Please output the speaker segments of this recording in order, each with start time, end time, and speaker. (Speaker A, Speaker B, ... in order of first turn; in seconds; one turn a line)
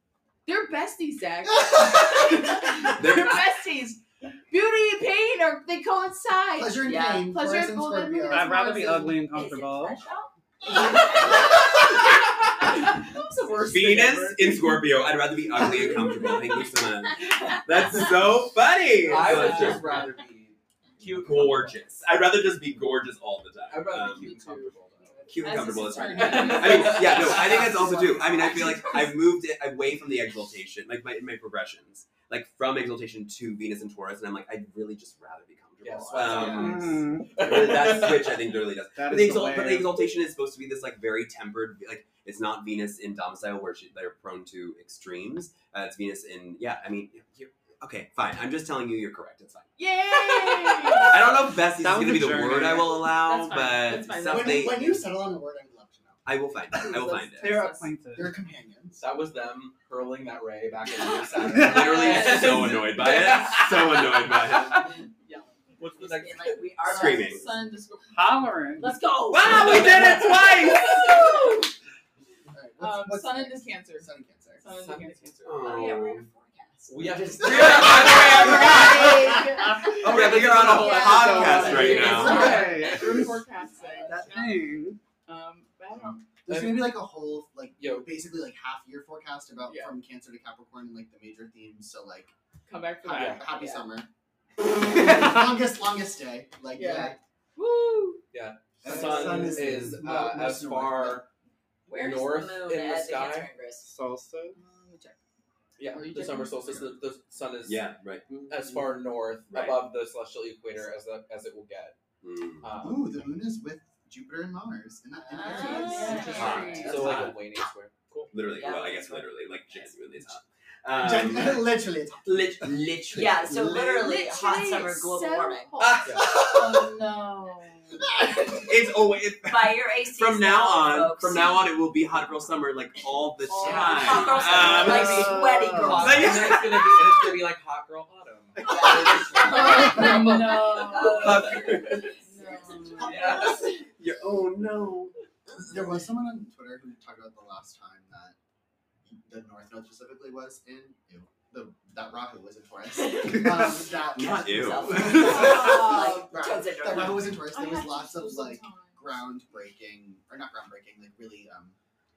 Speaker A: 0.5-9.3
Speaker B: 1.6-2.1
Speaker C: 2.8-3.6
Speaker B: 6.6-8.6
Speaker D: 6.8-7.4
Speaker E: 8.3-10.0
Speaker D: 9.3-11.6
Speaker A: 10.7-14.8
Speaker C: 13.6-20.1
Speaker A: 15.6-16.5
Speaker F: 19.1-22.0
Speaker A: 19.1-20.1
Speaker C: 21.1-24.3
Speaker F: 23.7-25.3
Speaker A: 23.9-29.1
Speaker C: 25.3-55.0
Speaker F: 26.1-27.9
Speaker F: 35.8-38.5
Speaker E: 36.3-37.4
Speaker E: 39.0-40.0
Speaker A: 49.8-51.5
Speaker E: 51.7-53.1
Speaker A: 53.0-54.9
Speaker B: 54.2-56.3
Speaker C: 56.3-57.7
Speaker A: 56.7-57.9
Speaker E: 57.2-58.4
Speaker B: 58.1-59.0
Speaker F: 59.0-64.8
Speaker C: 61.6-64.9
Speaker A: 61.9-62.5
Speaker A: 64.7-66.0
Speaker F: 65.8-66.7
Speaker D: 66.0-67.5
Speaker A: 66.8-71.7
Speaker C: 66.8-67.5
Speaker E: 68.1-69.1
Speaker C: 69.3-71.0
Speaker F: 69.4-71.3
Speaker B: 72.5-74.6
Speaker A: 72.8-74.1
Speaker A: 74.6-75.5
Speaker F: 74.7-75.5
Speaker C: 75.4-76.3
Speaker D: 75.6-77.2
Speaker F: 76.9-79.2
Speaker B: 77.3-78.5
Speaker C: 77.4-79.1
Speaker A: 77.7-84.7
Speaker E: 78.5-80.0
Speaker F: 79.9-83.0
Speaker C: 79.9-82.7
Speaker D: 80.9-82.5
Speaker E: 81.2-83.5
Speaker E: 84.1-85.0
Speaker A: 85.2-86.3
Speaker B: 86.4-92.3
Speaker F: 86.5-87.1
Speaker F: 87.8-88.1
Speaker A: 89.7-89.9
Speaker A: 92.7-93.9
Speaker B: 93.0-94.1
Speaker F: 93.1-93.5
Speaker B: 94.6-97.2
Speaker A: 96.7-98.2
Speaker F: 98.3-101.3
Speaker B: 98.8-101.2
Speaker E: 98.8-100.3
Speaker D: 101.9-103.9
Speaker F: 101.9-103.5
Speaker E: 103.8-104.6
Speaker A: 104.5-105.2
Speaker F: 105.8-107.9
Speaker A: 105.9-106.8
Speaker C: 107.6-108.3
Speaker F: 108.5-112.0
Speaker C: 109.5-109.9
Speaker C: 112.2-112.7
Speaker F: 112.6-113.1
Speaker B: 112.8-117.4
Speaker A: 115.2-117.2
Speaker D: 115.4-117.2
Speaker F: 116.3-118.3
Speaker C: 116.3-117.3
Speaker C: 118.3-121.7
Speaker D: 118.6-120.0
Speaker B: 120.9-124.0
Speaker C: 122.2-123.8
Speaker D: 123.1-125.8
Speaker A: 123.8-128.6
Speaker C: 125.8-126.4
Speaker C: 128.4-137.1
Speaker D: 129.5-131.7
Speaker A: 133.5-135.0
Speaker D: 133.5-136.8
Speaker F: 134.6-135.2
Speaker E: 134.6-136.2
Speaker F: 135.8-140.1
Speaker D: 138.7-143.7
Speaker A: 138.7-143.5
Speaker F: 141.1-142.0
Speaker C: 141.1-142.1
Speaker F: 143.0-143.5
Speaker C: 143.0-145.6
Speaker B: 145.6-148.4
Speaker B: 149.1-161.8
Speaker D: 153.1-153.6
Speaker C: 154.1-155.8
Speaker D: 154.3-157.4
Speaker A: 155.1-156.4
Speaker A: 157.5-159.1